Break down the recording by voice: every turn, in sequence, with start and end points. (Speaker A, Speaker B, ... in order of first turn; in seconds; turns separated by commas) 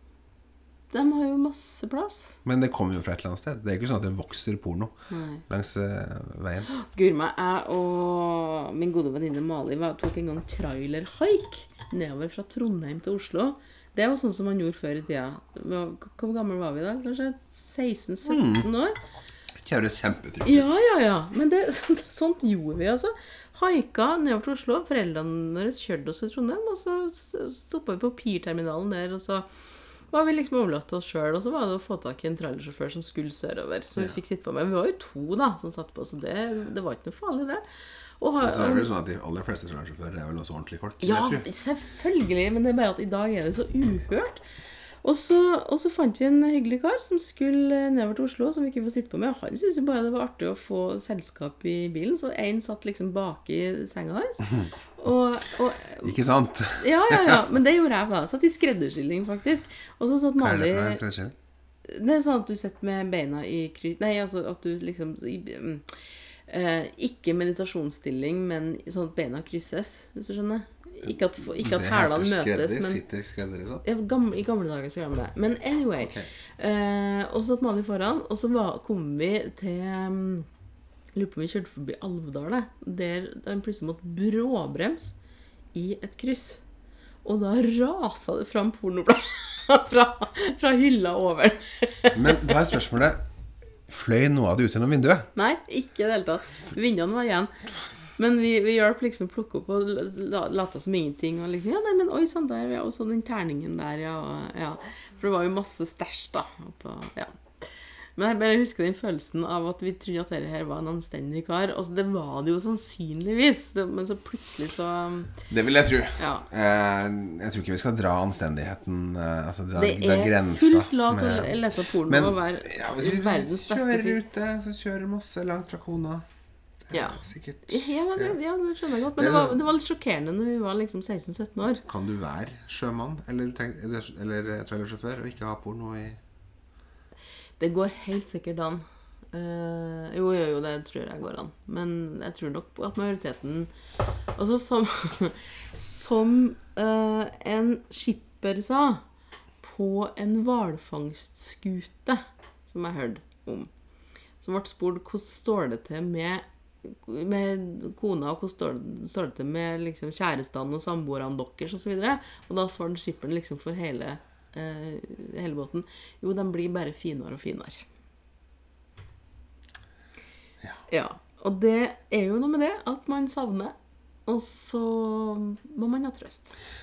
Speaker A: 0.9-2.4, Speaker B: 2.4-4.9, Speaker A: 5.1-5.4, Speaker B: 5.5-6.7, Speaker A: 6.7-19.0, Speaker B: 18.3-18.7, Speaker B: 19.6-20.7, Speaker A: 20.4-29.5, Speaker A: 30.1-37.6, Speaker A: 38.2-38.9, Speaker B: 38.4-41.5, Speaker A: 41.0-44.4, Speaker A: 45.0-56.1, Speaker B: 56.0-57.4, Speaker A: 56.8-61.0, Speaker B: 60.4-61.3, Speaker A: 61.8-73.0, Speaker B: 71.4-73.8, Speaker A: 73.8-80.5, Speaker B: 76.0-76.3, Speaker A: 81.1-85.1, Speaker A: 85.7-86.6, Speaker A: 87.2-92.7, Speaker B: 92.1-93.2, Speaker B: 93.9-95.3, Speaker A: 95.3-97.5, Speaker A: 98.2-115.4, Speaker B: 115.5-126.2, Speaker A: 116.2-116.5, Speaker A: 119.7-124.2, Speaker B: 126.9-128.4, Speaker A: 126.9-131.8, Speaker B: 129.2-129.6, Speaker B: 131.8-136.2, Speaker A: 137.6-143.7, Speaker A: 144.4-149.0, Speaker A: 149.6-153.7, Speaker A: 154.4-167.8, Speaker A: 170.9-173.7, Speaker A: 174.3-176.5